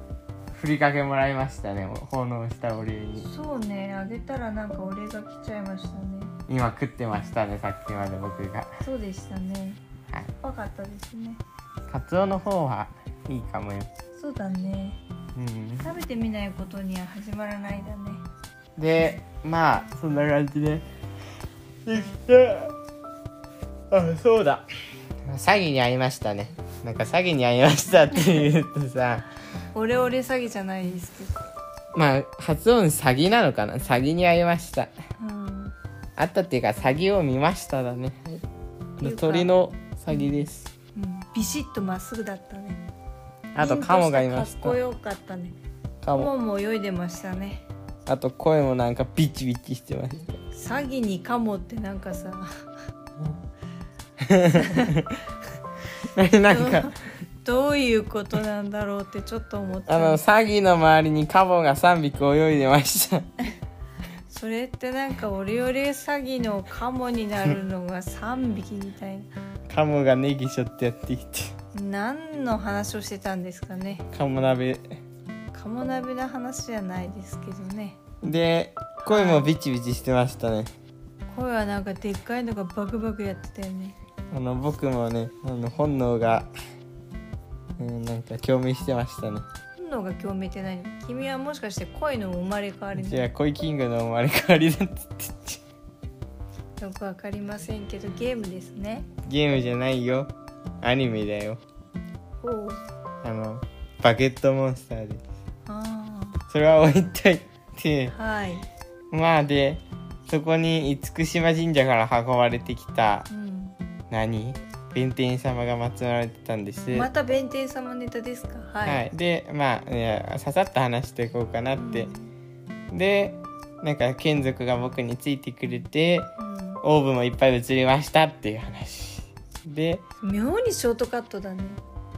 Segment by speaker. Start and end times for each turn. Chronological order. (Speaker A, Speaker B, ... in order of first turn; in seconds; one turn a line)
Speaker A: 0.5-3.3
Speaker B: 3.2-6.3
Speaker A: 6.5-8.7
Speaker B: 8.8-9.8
Speaker B: 10.4-11.4
Speaker A: 11.9-13.9
Speaker B: 14.2-15.0
Speaker A: 15.3-15.9
Speaker B: 15.8-18.2
Speaker A: 18.8-20.8
Speaker A: 21.9-22.7
Speaker A: 23.9-24.7
Speaker A: 25.2-29.2
Speaker B: 29.7-31.3
Speaker A: 31.9-34.9
Speaker B: 35.2-35.7
Speaker A: 36.2-38.4
Speaker A: 39.0-40.7
Speaker B: 39.0-39.5
Speaker B: 40.9-42.8
Speaker A: 43.5-44.8
Speaker B: 43.6-45.5
Speaker A: 46.0-46.3
Speaker B: 46.1-47.6
Speaker A: 48.1-50.4
Speaker B: 50.5-52.5
Speaker A: 54.2-55.1
Speaker B: 54.6-54.9
Speaker A: 56.1-56.9
Speaker B: 56.5-60.2
Speaker A: 59.9-63.3
Speaker B: 64.3-69.3
Speaker A: 69.7-71.5
Speaker B: 71.7-74.0
Speaker A: 74.1-75.0
Speaker B: 75.5-78.0
Speaker A: 78.2-80.7
Speaker B: 79.0-79.5
Speaker B: 81.3-84.0
Speaker A: 84.3-86.5
Speaker A: 87.8-89.5
Speaker B: 89.8-93.3
Speaker A: 92.9-95.6
Speaker B: 96.8-99.1
Speaker A: 99.2-100.3
Speaker A: 100.8-101.6
Speaker B: 102.4-102.8
Speaker A: 103.2-105.2
Speaker B: 105.7-106.4
Speaker A: 106.5-108.2
Speaker B: 108.1-108.7
Speaker A: 109.1-113.3
Speaker B: 113.3-113.7
Speaker A: 114.1-117.1
Speaker B: 116.9-119.0
Speaker A: 118.8-122.1
Speaker B: 121.8-122.3
Speaker A: 122.9-126.3
Speaker B: 126.4-126.8
Speaker A: 126.8-130.0
Speaker B: 130.2-131.8